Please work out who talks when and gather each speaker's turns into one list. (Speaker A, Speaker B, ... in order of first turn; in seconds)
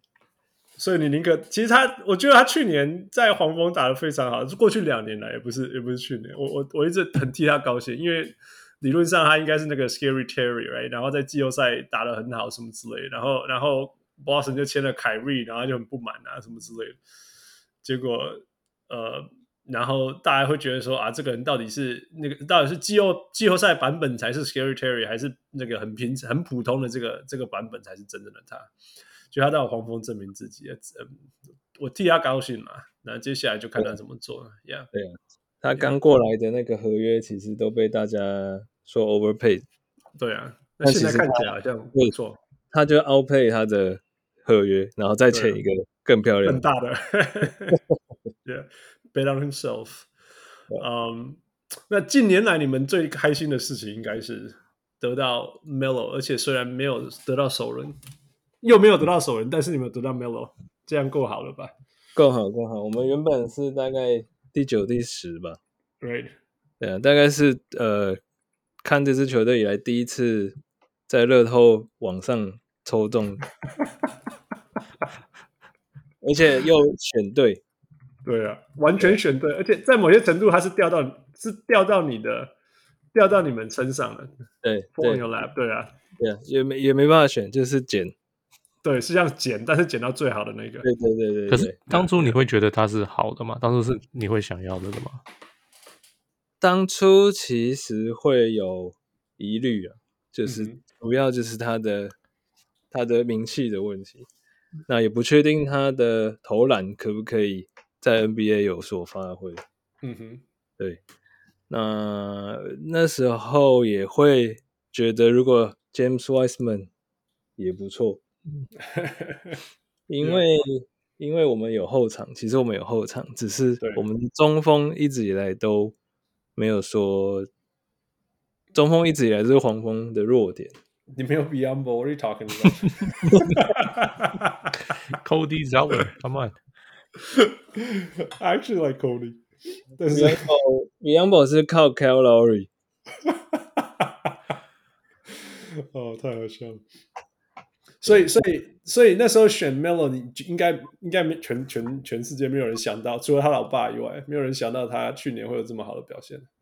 Speaker A: 0.8-17.0, 17.8-28.7, 29.3-34.9, 40.2-42.4, 45.3-45.6, 46.4-47.8, 48.4-50.1, 50.7-58.0, 58.6-61.7, 66.0-66.3, 78.2-82.5, 83.1-84.3, 84.9-86.0, 88.8-90.9, 91.9-92.4, 100.4-100.8, 110.0-110.4, 118.8-119.6, 123.8-124.0, 131.1-134.8, 137.2-139.4, 140.0-140.5, 143.2-144.3, 145.3-146.8, 148.0-156.5
Speaker B: 34.9-39.6, 40.8-42.1, 42.7-46.6, 62.1-65.6, 66.8-68.2, 68.8-73.4, 76.2-77.6, 84.6-85.3, 86.2-88.1, 90.8-91.8, 96.6-102.1, 102.9-104.3, 104.9-109.6, 111.7-116.9, 117.6-118.2, 120.1-125.9, 126.5-127.5, 128.7-130.7, 133.3-133.6, 140.1-142.7
Speaker C: 91.5-95.2, 135.1-136.6